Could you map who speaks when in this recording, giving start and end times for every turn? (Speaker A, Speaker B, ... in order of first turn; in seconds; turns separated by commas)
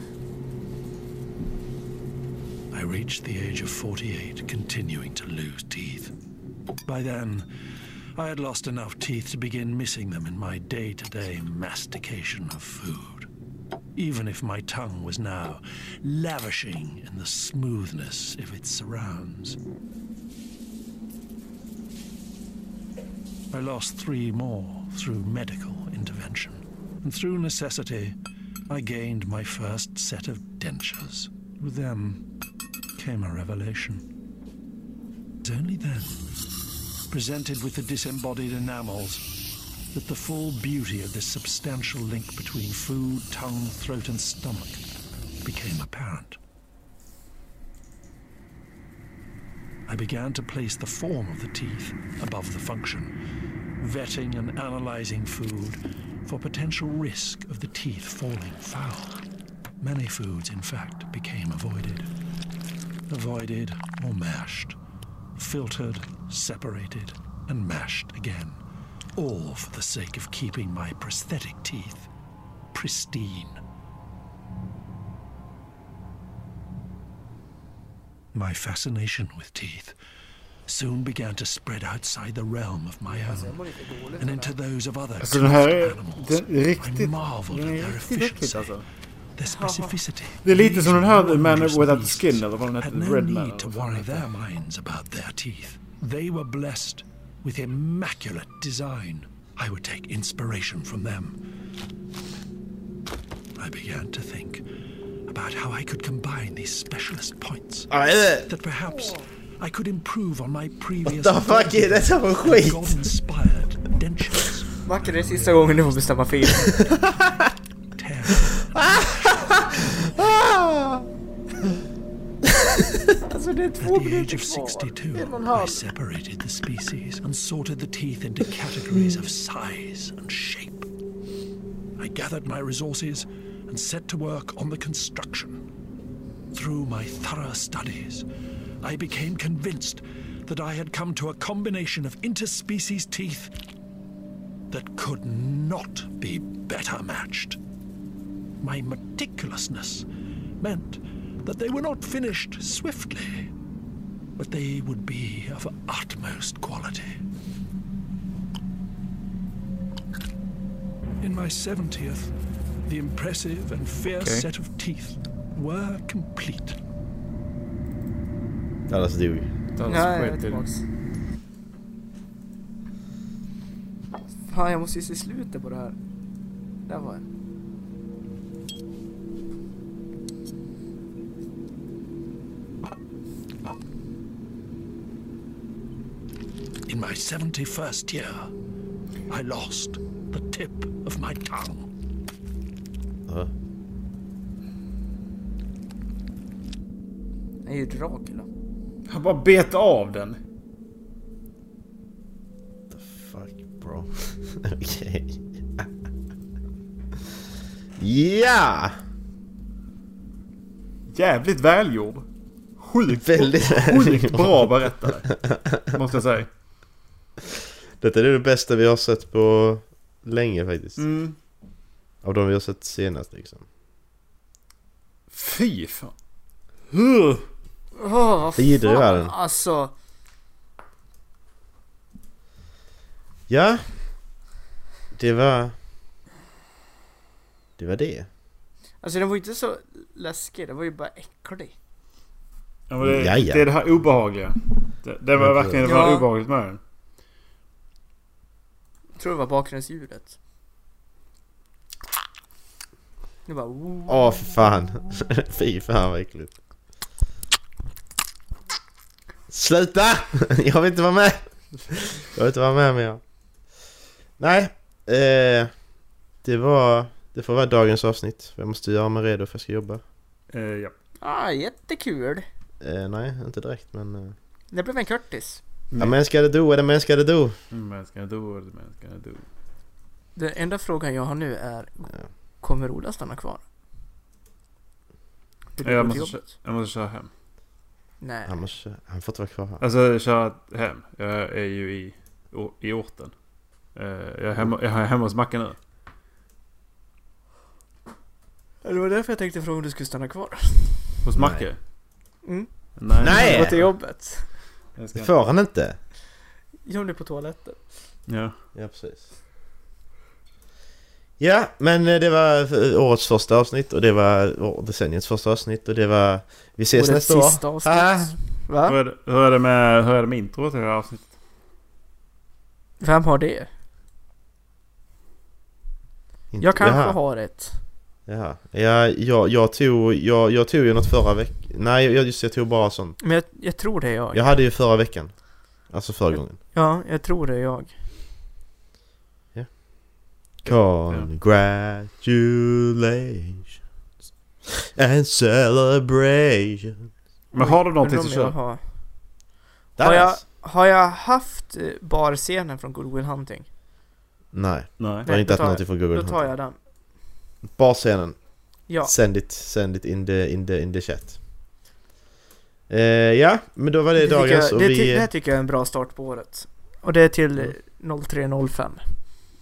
Speaker A: 2.7-6.1, Speaker A: 6.8-7.5, Speaker A: 8.2-13.3, Speaker A: 13.9-19.6, Speaker A: 23.5-28.2, Speaker A: 28.7-32.2, Speaker A: 32.9-34.0, Speaker A: 35.4-36.2, Speaker A: 37.1-39.2, Speaker A: 39.9-44.8, Speaker A: 45.4-46.4, Speaker A: 49.9-53.1, Speaker A: 53.8-59.2, Speaker A: 59.8-62.1, Speaker A: 63.1-64.8, Speaker A: 65.3-68.6, Speaker A: 69.2-72.1, Speaker A: 72.7-73.6, Speaker A: 78.3-80.0, Speaker A: 80.7-83.6, Speaker B: 83.1-84.5, Speaker A: 84.2-88.8, Speaker C: 85.2-88.8, Speaker A: 89.4-101.4, Speaker B: 89.5-90.0, Speaker C: 90.4-94.3, Speaker A: 103.5-104.6, Speaker A: 105.3-107.9, Speaker D: 107.9-108.5, Speaker A: 108.5-117.2, Speaker D: 111.0-113.0, Speaker B: 114.8-116.8, Speaker D: 116.8-117.5, Speaker A: 118.0-120.0, Speaker D: 118.8-121.1, Speaker B: 123.3-125.8, Speaker A: 123.8-130.9, Speaker A: 132.0-135.6, Speaker A: 136.5-138.2, Speaker A: 138.8-143.5, Speaker A: 144.7-147.6, Speaker A: 148.6-150.1, Speaker A: 150.6-153.5, Speaker A: 154.4-157.2, Speaker A: 161.2-162.3, Speaker A: 162.8-166.8, Speaker C: 164.2-164.5, Speaker D: 168.9-169.5, Speaker C: 169.8-170.6, Speaker B: 169.9-170.8, Speaker B: 174.5-175.9, Speaker B: 176.9-177.2, Speaker A: 186.9-188.5, Speaker A: 189.3-191.9, Speaker B: 197.6-198.5, Speaker C: 199.1-200.4, Speaker D: 202.9-205.9, Speaker D: 208.0-208.9, Speaker C: 211.1-212.2, Speaker C: 212.8-216.5, Speaker D: 213.1-215.8, Speaker D: 218.0-221.0, Speaker C: 221.0-221.3, Speaker D: 222.2-223.6, Speaker C: 225.3-226.1, Speaker C: 226.9-227.4, Speaker B: 228.0-229.9, Speaker D: 228.6-229.3, Speaker D: 233.5-233.9, Speaker D: 235.1-235.7, Speaker D: 237.8-238.3, Speaker B: 239.0-241.7, Speaker C: 242.9-246.8, Speaker D: 243.0-243.7, Speaker D: 245.4-245.8, Speaker B: 245.8-246.2, Speaker B: 249.2-250.3, Speaker B: 253.4-254.3, Speaker D: 254.1-256.5, Speaker D: 259.5-263.2, Speaker D: 264.4-265.7, Speaker D: 266.4-270.0, Speaker C: 270.5-270.9, Speaker B: 271.2-272.4, Speaker D: 272.8-274.3, Speaker B: 274.7-275.6, Speaker D: 276.0-277.6, Speaker C: 277.7-279.4, Speaker B: 280.4-282.1, Speaker B: 282.6-283.6, Speaker B: 285.8-286.4, Speaker C: 285.8-287.3, Speaker B: 288.2-288.5, Speaker D: 288.4-289.8, Speaker C: 289.8-293.3, Speaker C: 293.9-295.8, Speaker B: 298.8-301.1, Speaker C: 301.2-301.8, Speaker D: 301.4-301.7, Speaker B: 302.4-304.5, Speaker C: 303.0-303.9, Speaker D: 303.2-303.9, Speaker C: 305.0-305.3, Speaker D: 305.1-306.0, Speaker B: 306.9-307.9, Speaker C: 308.3-308.5, Speaker D: 308.7-309.3, Speaker D: 311.4-318.4, Speaker B: 316.9-318.9, Speaker C: 318.9-321.3, Speaker B: 323.0-323.7, Speaker D: 326.5-327.2, Speaker B: 326.6-327.8, Speaker D: 328.2-333.2, Speaker B: 333.2-334.4, Speaker D: 334.3-335.3, Speaker D: 335.9-336.6, Speaker B: 336.7-337.9, Speaker D: 340.6-343.8, Speaker C: 340.7-341.3, Speaker D: 344.7-347.1, Speaker C: 347.5-348.6, Speaker B: 347.5-348.8, Speaker D: 350.0-350.4, Speaker B: 350.0-353.7, Speaker D: 354.5-356.5, Speaker C: 355.0-355.3, Speaker B: 355.2-356.8, Speaker D: 357.8-361.4, Speaker B: 358.9-359.1, Speaker D: 362.9-365.3, Speaker B: 364.2-369.0